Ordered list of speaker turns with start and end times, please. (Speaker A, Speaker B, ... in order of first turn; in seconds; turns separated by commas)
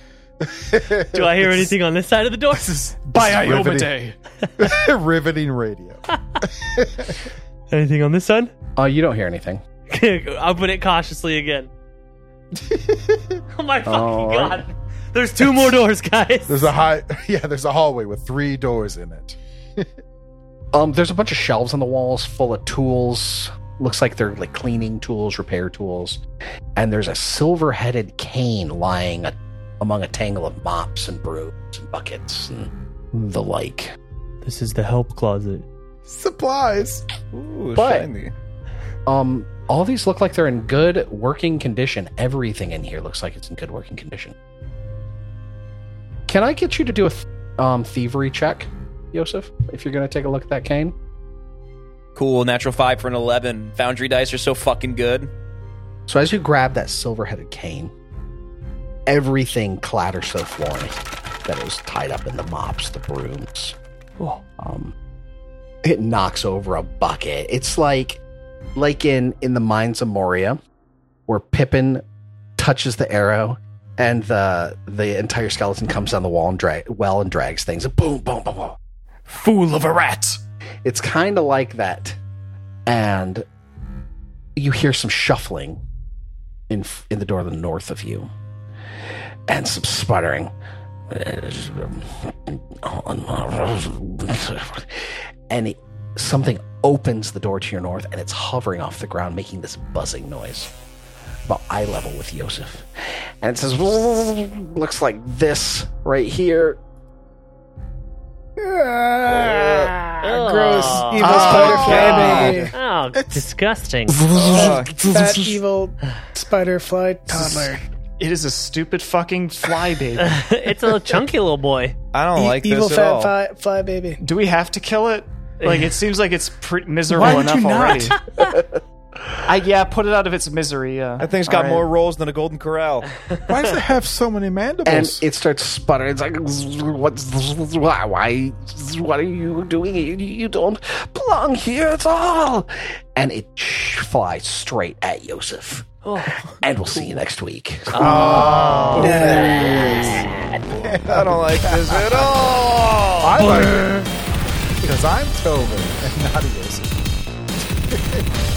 Speaker A: 0.5-1.7, Speaker B: 1.0-2.8, Speaker A: 2.5-4.0, Speaker C: 3.1-4.2, Speaker A: 4.6-7.2, Speaker B: 7.7-8.5, Speaker D: 8.8-9.6, Speaker B: 9.9-11.7, Speaker A: 12.6-13.4, Speaker B: 13.5-16.7, Speaker D: 13.8-14.7, Speaker A: 16.5-19.9, Speaker D: 20.7-26.2, Speaker D: 26.7-34.0, Speaker B: 34.4-35.7, Speaker A: 36.1-37.0, Speaker E: 37.3-38.3, Speaker D: 37.7-38.1, Speaker D: 39.1-44.3, Speaker D: 46.3-51.0, Speaker E: 52.1-55.3, Speaker D: 56.1-57.9, Speaker D: 59.1-63.8, Speaker D: 64.6-64.9, Speaker D: 65.8-68.2, Speaker D: 68.7-70.6, Speaker D: 71.3-72.0, Speaker D: 72.6-78.8, Speaker C: 79.3-80.4, Speaker D: 80.8-82.2, Speaker D: 82.9-83.5, Speaker D: 84.6-85.8, Speaker D: 86.7-88.3, Speaker D: 89.5-90.5, Speaker D: 91.1-100.7, Speaker D: 101.5-106.8, Speaker F: 108.6-113.5, Speaker B: 110.2-114.2, Speaker C: 111.2-112.6, Speaker E: 111.3-112.7, Speaker F: 114.2-117.8, Speaker D: 114.4-114.7, Speaker E: 114.5-115.2, Speaker C: 117.4-117.7, Speaker C: 118.2-120.4, Speaker B: 120.2-122.0, Speaker E: 122.1-123.3, Speaker F: 122.3-124.2, Speaker C: 124.2-128.2, Speaker B: 125.6-125.9, Speaker F: 127.1-128.2, Speaker C: 129.4-131.9, Speaker E: 131.2-133.1, Speaker A: 133.5-135.2, Speaker D: 134.8-150.5, Speaker B: 146.0-146.5, Speaker B: 147.9-149.3, Speaker A: 147.9-150.1, Speaker F: 149.0-149.7, Speaker A: 150.7-152.6, Speaker E: 150.8-153.6, Speaker A: 153.2-154.1, Speaker B: 153.4-154.1, Speaker A: 154.8-157.1, Speaker A: 157.7-158.3